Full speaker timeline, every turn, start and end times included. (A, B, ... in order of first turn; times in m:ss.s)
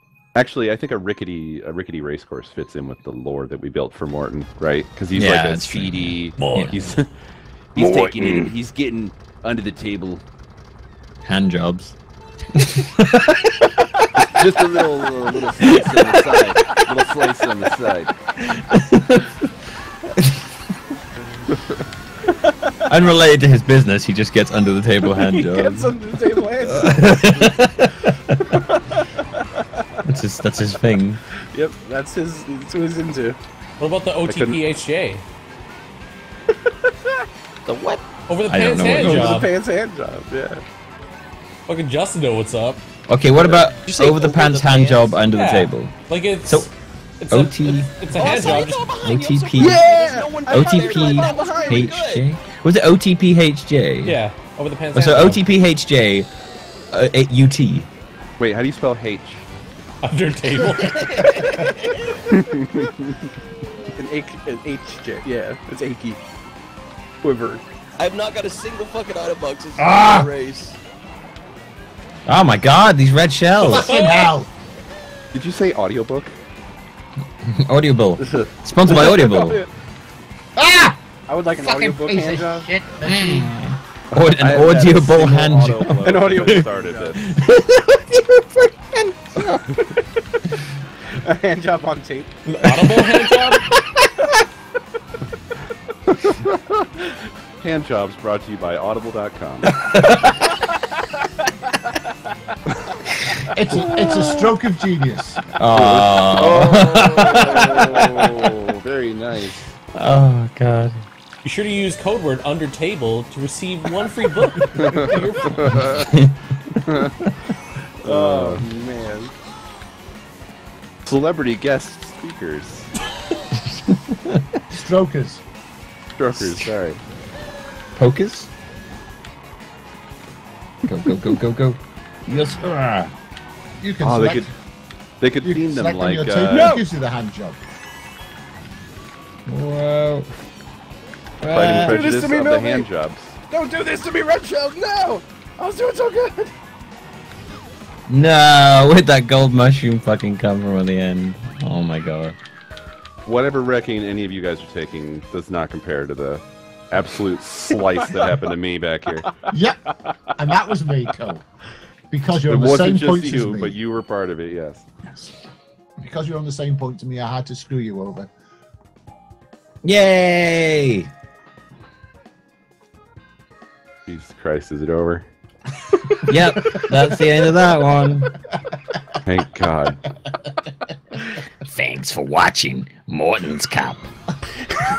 0:00.4-0:07.1 A
0:05.1-0:06.9 B
0:06.4-0:06.7 C
0:07.8-0:10.2 A
0:07.8-0:08.5 B
0:11.2-0:12.0 B
0:12.6-0:13.8 B
0:14.2-0:18.1 A
0:14.4-0:14.8 B
0:15.6-0:16.7 B
0:18.4-0:19.5 B
0:20.2-0:20.4 B
0:22.3-0:22.6 D
0:22.9-0:26.0 B
0:25.1-0:27.5 D
0:26.6-0:28.6 B
0:30.0-0:31.2 B
0:31.5-0:33.4 D
0:33.8-0:35.2 C
0:34.3-0:34.6 A
0:36.6-0:37.2 D
0:37.7-0:38.0 E
0:38.3-0:39.5 C
0:38.5-0:39.3 B
0:38.9-0:40.6 D
0:41.7-0:42.8 C
0:43.1-0:46.7 B
0:43.5-0:45.2 E
0:45.3-0:48.8 C
0:47.3-0:49.8 B
0:48.1-0:52.2 E
0:49.6-0:51.8 D
0:50.5-0:54.2 B
0:54.0-0:55.4 C
0:54.9-0:56.3 B
0:56.9-0:57.9 B
0:58.4-0:59.5 A
1:00.0-1:01.2 C
1:00.6-1:02.2 E
1:02.3-1:03.1 A
1:04.0-1:06.2 D
1:07.2-1:07.6 D
1:08.0-1:10.8 E
1:09.8-1:10.3 F
1:12.3-1:14.0 B
1:13.6-1:14.5 F
1:15.3-1:16.3 A
1:17.5-1:19.6 B
1:18.2-1:19.7 D
1:20.6-1:21.0 F
1:21.3-1:22.7 D
1:21.6-1:23.5 F
1:23.0-1:29.0 B
1:24.4-1:27.2 A
1:26.0-1:27.2 D
1:31.1-1:32.3 D
1:32.5-1:33.7 C
1:36.2-1:36.8 A
1:37.6-1:39.7 A
1:40.0-1:40.5 B
1:43.5-1:45.4 F
1:45.6-1:48.7 B
1:45.7-1:49.6 A
1:49.9-1:51.0 B
1:51.4-1:55.8 C
1:55.0-1:55.8 A
1:55.8-1:56.4 B
1:56.9-1:57.3 B
1:58.0-1:58.7 A
1:58.0-1:59.3 D
2:01.0-2:02.9 A
2:03.6-2:04.6 B
2:04.7-2:05.4 F
2:06.2-2:07.0 A
2:06.4-2:06.7 B
2:08.0-2:08.5 B
2:10.8-2:13.1 B
2:13.8-2:14.5 F
2:14.0-2:14.5 A
2:15.2-2:16.7 A
2:15.4-2:17.6 F
2:16.5-2:16.8 D
2:19.5-2:20.3 B
2:21.4-2:22.1 B
2:21.5-2:23.4 A
2:21.5-2:22.9 D
2:23.5-2:26.5 D
2:28.1-2:32.4 B
2:33.2-2:39.3 A
2:39.5-2:41.4 F
2:42.1-2:43.8 F
2:42.5-2:44.9 A
2:45.1-2:45.3 F
2:46.0-2:48.3 F
2:49.8-2:51.1 B
2:54.1-2:55.3 A
2:56.2-2:58.3 B
2:59.3-3:00.0 A
3:01.7-3:04.1 B